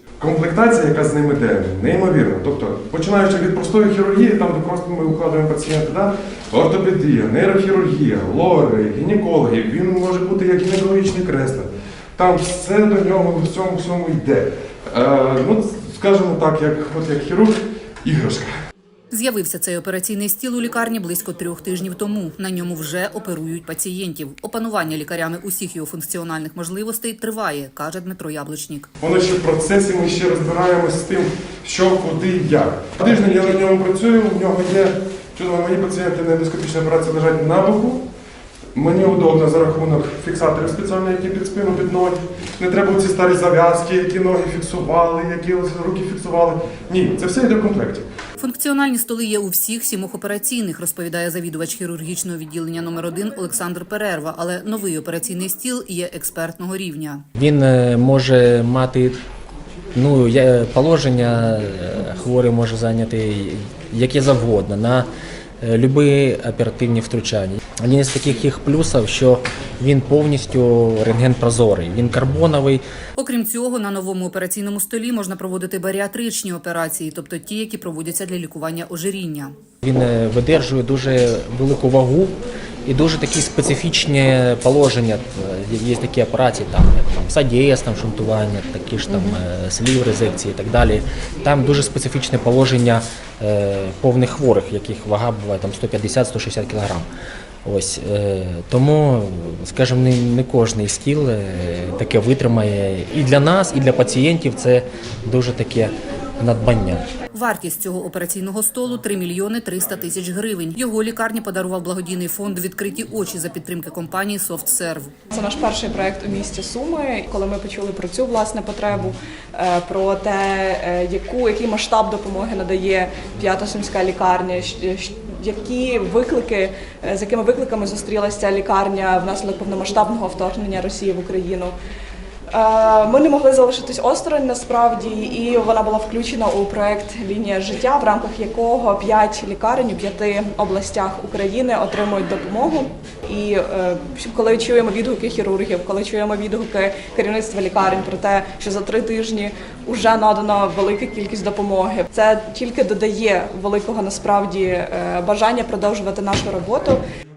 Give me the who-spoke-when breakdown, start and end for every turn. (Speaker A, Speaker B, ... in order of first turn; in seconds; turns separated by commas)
Speaker A: 0.2-18.5, Speaker B: 19.1-28.9, Speaker A: 29.0-38.0, Speaker A: 38.8-48.0, Speaker B: 48.4-57.2, Speaker C: 57.4-59.2, Speaker C: 60.0-65.1, Speaker C: 65.6-72.8, Speaker B: 73.2-79.5, Speaker C: 79.8-97.1, Speaker C: 97.7-107.0, Speaker B: 107.3-115.1, Speaker D: 115.3-131.7, Speaker D: 132.5-157.0